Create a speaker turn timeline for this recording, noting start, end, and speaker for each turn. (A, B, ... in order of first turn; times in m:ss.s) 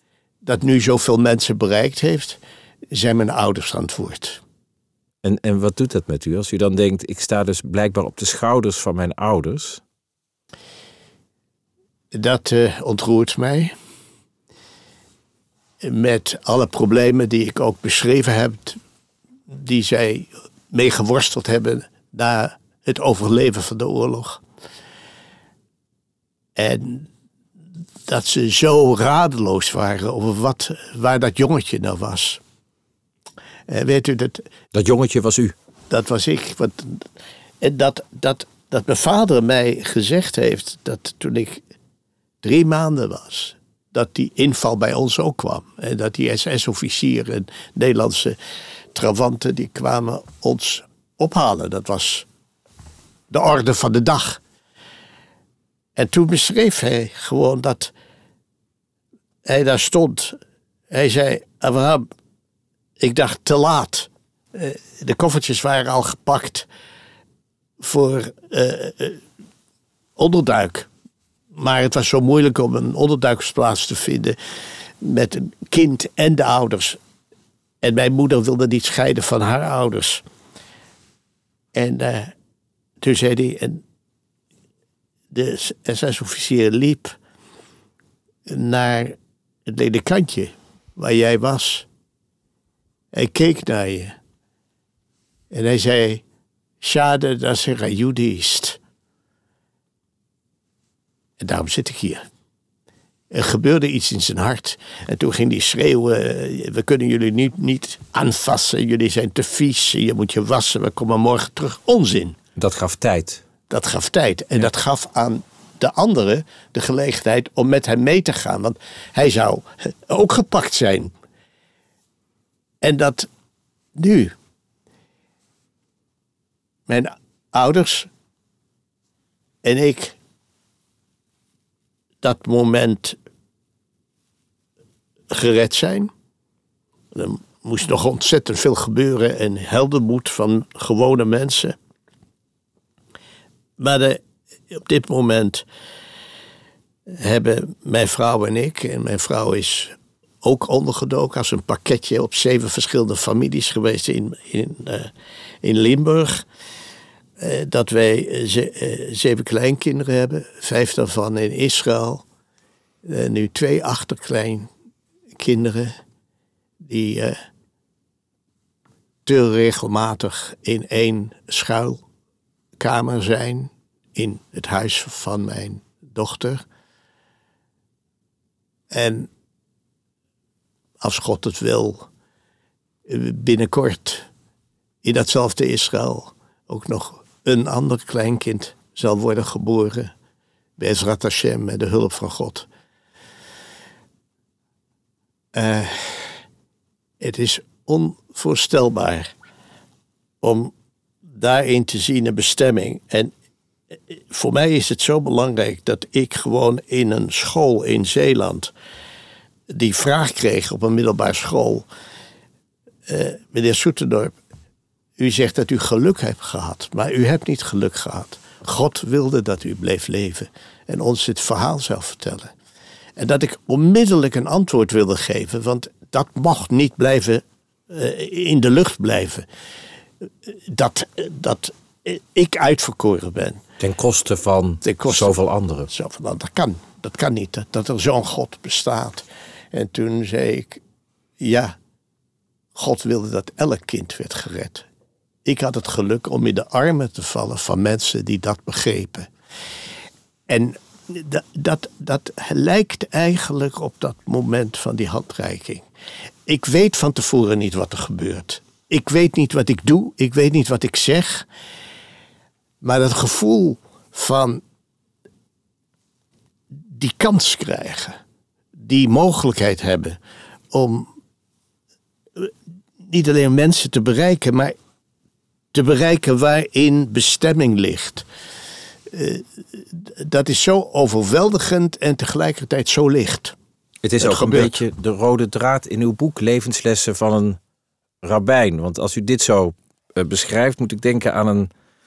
0:00.4-0:04.4 A
0:05.2-0:09.8 B
0:12.1-0:13.7 A
0:15.8-0:18.8 A
0:19.5-0:24.4 A
0:26.6-0:27.1 A
0:28.1-0:32.4 A
0:33.7-0:34.5 A
0:34.7-0:35.5 B
0:35.9-0:37.1 A
0:37.6-0:41.6 A
0:42.4-0:48.4 A
0:48.9-0:52.3 A
0:53.3-0:54.4 A
0:56.0-0:57.9 A
0:59.4-1:00.4 A
1:00.9-1:02.0 A
1:03.0-1:06.7 A
1:07.8-1:09.2 A
1:10.2-1:10.9 A
1:11.5-1:14.4 A
1:15.0-1:17.0 A
1:17.8-1:20.2 A
1:21.7-1:22.3 A
1:23.0-1:23.8 A
1:25.3-1:27.2 A
1:28.5-1:31.9 A
1:33.1-1:34.2 A
1:35.5-1:36.2 A
1:36.8-1:38.8 A
1:41.4-1:42.2 A
1:43.3-1:52.4 A
1:52.6-1:53.4 B
1:53.7-2:01.1 A
2:02.8-2:03.3 A
2:04.0-2:04.3 A
2:06.9-2:08.1 A
2:09.6-2:10.2 A
2:12.2-2:13.2 A
2:15.3-2:16.1 A
2:17.1-2:21.8 A
2:23.8-2:25.6 A
2:27.1-2:36.4 A
2:37.4-2:42.2 A
2:43.0-2:44.7 A
2:45.4-2:46.0 A
2:46.8-2:47.3 A
2:49.2-2:52.0 A
2:52.8-2:56.6 A
2:58.9-2:59.3 A
3:01.0-3:02.1 A
3:03.0-3:04.3 A
3:05.0-3:10.1 A
3:10.8-3:12.7 A
3:15.5-3:16.4 A
3:17.2-3:19.3 A
3:20.4-3:20.7 A
3:21.3-3:23.3 A
3:23.9-3:28.7 A
3:29.7-3:31.9 A
3:33.1-3:34.3 A
3:35.2-3:42.5 A
3:43.2-3:49.4 A
3:50.4-3:53.6 A
3:53.8-3:55.9 B
3:54.8-3:55.3 A
3:55.9-4:00.8 A
4:01.4-4:01.8 A
4:02.7-4:04.8 A
4:05.4-4:09.3 A
4:10.5-4:15.8 A
4:16.4-4:21.5 A
4:22.8-4:24.6 A
4:26.7-4:28.2 A
4:28.8-4:30.2 A
4:30.7-4:31.1 A
4:32.4-4:34.7 A
4:35.7-4:38.2 A
4:39.1-4:43.6 A
4:44.0-4:47.6 B
4:44.2-4:44.8 A
4:48.2-4:51.7 B